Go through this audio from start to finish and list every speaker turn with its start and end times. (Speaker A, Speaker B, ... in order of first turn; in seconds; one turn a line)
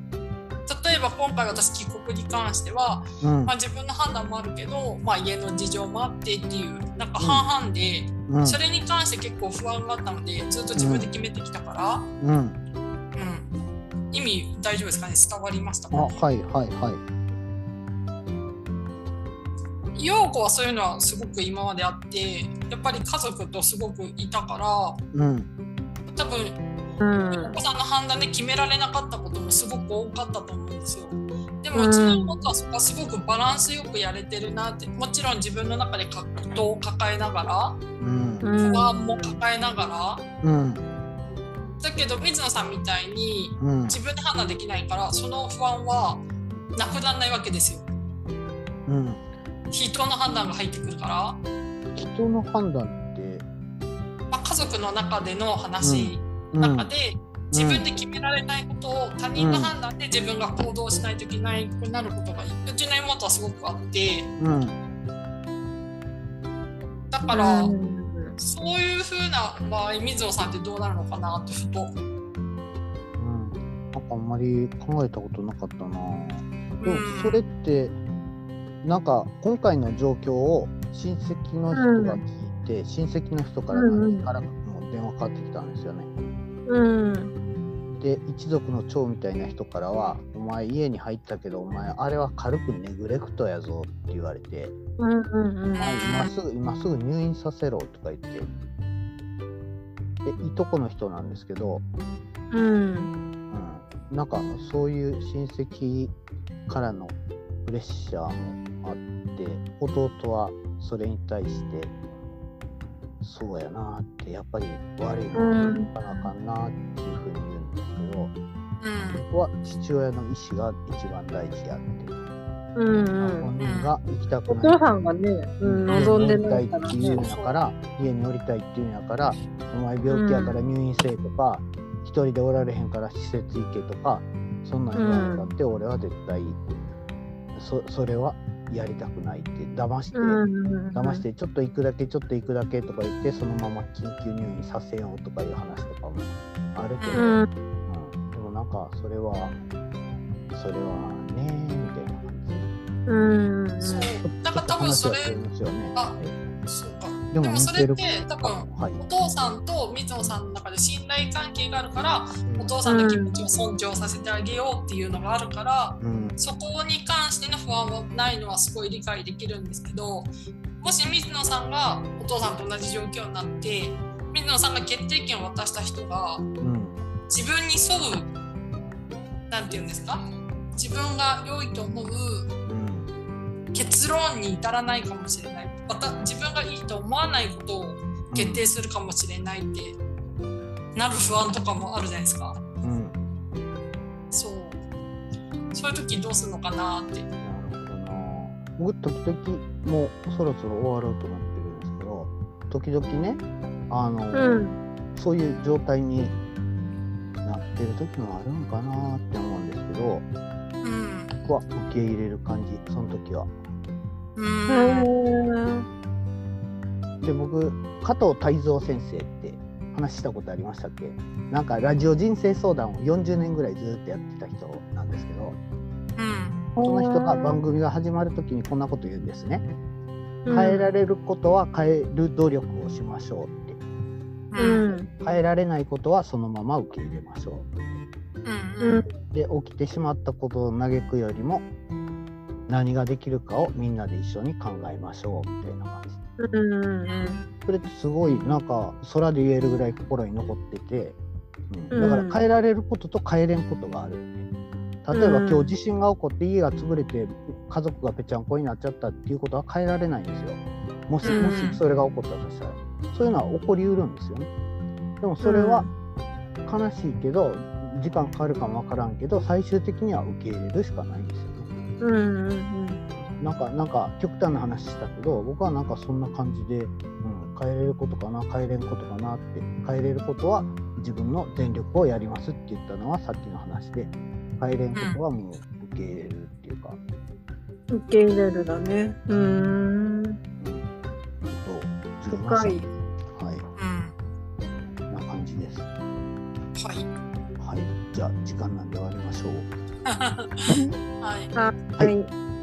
Speaker A: 0.7-12.1
Speaker B: 3.2-3.5
Speaker B: 7.2-7.5
Speaker B: 8.3-8.6
Speaker B: 10.7-11.1
Speaker B: 12.2-12.6
Speaker A: 13.1-13.5
Speaker A: 14.1-16.2
Speaker B: 15.9-17.0
Speaker A: 19.9-25.0
Speaker B: 25.1-25.5
Speaker A: 26.1-26.6
Speaker C: 27.0-27.6
Speaker A: 27.2-37.8
Speaker C: 31.7-32.5
Speaker B: 38.0-38.5
Speaker C: 38.4-39.0
Speaker A: 38.6-40.2
Speaker B: 40.4-40.8
Speaker A: 41.8-46.2
Speaker B: 43.6-44.0
Speaker A: 46.8-47.9
Speaker B: 48.9-49.2
Speaker A: 49.7-51.4
Speaker B: 51.9-53.5
Speaker A: 54.3-64.3
Speaker B: 55.8-56.9
Speaker B: 57.5-57.8
Speaker B: 59.4-59.7
Speaker B: 64.4-64.8
Speaker A: 67.1-67.7
Speaker C: 67.3-68.4
Speaker A: 68.4-72.0
Speaker B: 73.2-78.0
Speaker A: 76.8-77.4
Speaker B: 78.8-86.1
Speaker C: 81.7-82.2
Speaker C: 83.7-84.3
Speaker C: 86.7-87.3
Speaker B: 87.9-94.7
Speaker C: 95.0-95.9
Speaker A: 95.8-96.3
Speaker B: 95.8-98.5
Speaker B: 100.2-101.8
Speaker C: 102.5-103.1
Speaker B: 103.5-106.1
Speaker B: 106.7-111.9
Speaker B: 113.2-118.3
Speaker C: 115.3-116.3
Speaker A: 118.8-119.2
Speaker B: 119.1-122.1
Speaker C: 122.8-123.5
Speaker B: 123.2-124.8
Speaker A: 123.6-123.9
Speaker C: 124.5-127.2
Speaker B: 125.6-136.6
Speaker A: 125.9-126.3
Speaker A: 126.9-127.5
Speaker C: 130.1-130.5
Speaker C: 134.9-135.5
Speaker B: 137.5-140.4
Speaker C: 140.1-141.2
Speaker B: 140.9-149.5
Speaker A: 147.0-147.3
Speaker C: 147.1-147.5
Speaker B: 150.5-152.7
Speaker C: 153.1-154.1
Speaker A: 153.8-155.4
Speaker B: 154.2-156.3
Speaker A: 155.9-176.5
Speaker B: 157.3-159.0
Speaker B: 162.4-162.8
Speaker C: 162.8-163.4
Speaker B: 166.0-166.4
Speaker B: 176.6-177.0
Speaker A: 177.3-178.3
Speaker A: 179.5-182.5
Speaker B: 182.7-183.1
Speaker A: 183.7-190.0
Speaker B: 188.3-188.6
Speaker A: 190.9-192.6
Speaker B: 192.8-193.2
Speaker A: 194.3-194.8
Speaker A: 195.7-197.3
Speaker B: 197.4-204.6
Speaker C: 204.3-204.8
Speaker B: 205.1-206.3
Speaker B: 207.4-210.2
Speaker A: 210.8-211.4
Speaker B: 211.4-213.5
Speaker A: 214.3-215.1
Speaker C: 214.7-215.8
Speaker B: 217.2-225.6
Speaker A: 226.2-226.6
Speaker C: 226.8-227.6
Speaker B: 226.8-229.7
Speaker C: 230.4-230.9
Speaker B: 230.5-233.8
Speaker A: 234.5-234.9
Speaker C: 234.6-235.1
Speaker B: 235.1-237.7
Speaker A: 238.4-239.1
Speaker C: 238.8-239.1
Speaker B: 239.3-241.6
Speaker B: 242.7-246.2
Speaker C: 246.4-247.2
Speaker A: 247.1-247.4
Speaker B: 247.7-251.2
Speaker B: 251.7-254.5
Speaker C: 251.9-252.4
Speaker B: 255.0-264.5
Speaker C: 255.1-255.7
Speaker C: 261.2-261.8
Speaker A: 261.2-261.7
Speaker B: 265.2-265.9
Speaker C: 265.4-265.9
Speaker B: 266.6-271.7
Speaker C: 272.0-273.0
Speaker B: 273.2-287.0
Speaker A: 284.9-285.2
Speaker C: 287.9-290.4
Speaker B: 289.3-289.8
Speaker B: 290.6-290.9
Speaker B: 291.5-293.6
Speaker C: 292.3-292.9
Speaker A: 293.8-294.1
Speaker B: 295.1-295.9
Speaker A: 296.8-297.1
Speaker B: 297.6-299.7
Speaker A: 300.1-301.5
Speaker B: 300.7-300.9
Speaker C: 301.5-302.3